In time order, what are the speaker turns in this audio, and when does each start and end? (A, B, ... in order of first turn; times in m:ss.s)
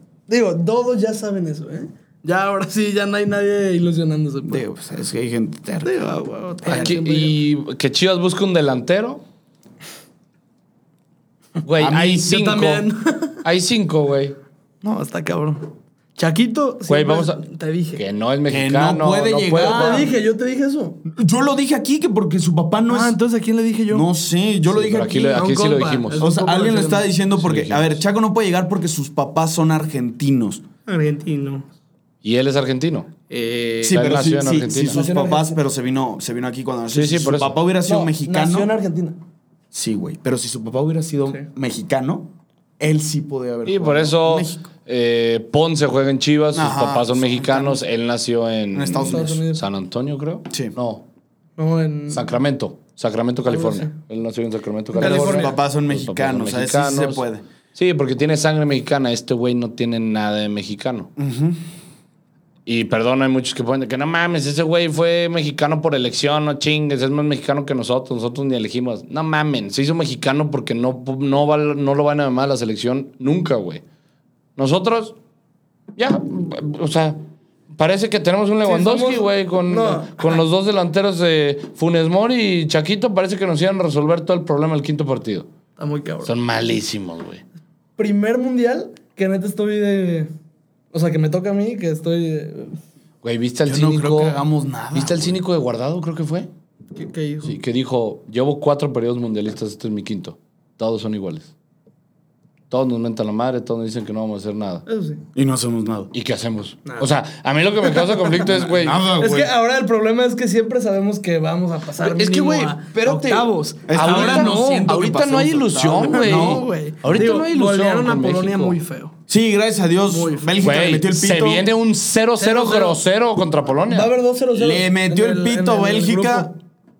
0:00.3-0:04.6 A
0:04.5-0:05.9 B
0:05.8-0:07.4 A
0:06.6-0:07.0 B
0:06.7-0:09.2 C
0:11.6-0:12.9 C
0:11.8-0:12.2 B
0:12.2-0:13.4 A
0:13.4-0:14.4 C
0:14.8-0:18.0 A
0:16.9-0:17.4 C
0:18.0-0:20.1 C
0:18.5-0:20.1 B
0:19.5-0:21.0 A
0:21.0-0:23.2 B
0:22.9-0:24.1 A
0:23.9-0:25.5 B
0:24.7-0:26.2 C
0:25.3-0:27.1 A
0:26.2-0:30.6 B
0:27.4-0:28.0 C
0:30.9-0:31.7 A
0:32.2-0:35.0 C
0:33.8-0:38.7 B
0:34.9-0:35.6 A
0:36.9-0:37.6 C
0:37.9-0:39.2 A
0:39.7-0:44.6 B
0:43.6-0:51.0 C
0:46.5-0:47.8 B
0:48.7-0:49.4 B
0:49.0-0:49.6 A
0:51.6-0:52.3 A
0:52.1-0:57.2 C
0:53.5-0:53.9 A
0:55.0-0:55.5 A
0:55.0-0:57.4 B
0:57.8-1:01.1 C
1:01.2-1:01.6 B
1:02.6-1:13.8 C
1:14.6-1:15.1 C
1:16.0-1:17.2 C
1:17.7-1:25.5 C
1:18.6-1:20.4 A
1:25.8-1:26.3 A
1:26.2-1:27.4 C
1:28.0-1:30.3 A
1:30.9-1:32.8 A
1:33.2-1:34.4 C
1:33.6-1:35.4 B
1:34.9-1:36.5 C
1:37.0-1:37.6 A
1:37.4-1:41.5 C
1:42.7-1:44.8 C
1:44.9-1:45.2 A
1:45.4-1:46.1 B
1:46.1-1:49.0 C
1:48.4-1:49.5 B
1:49.2-1:55.0 A
1:52.0-1:58.8 C
1:53.9-1:56.6 B
1:56.0-1:59.1 A
1:59.3-2:01.7 B
2:00.1-2:00.5 A
2:00.6-2:04.1 C
2:02.4-2:03.0 A
2:03.9-2:06.5 A
2:04.6-2:06.5 B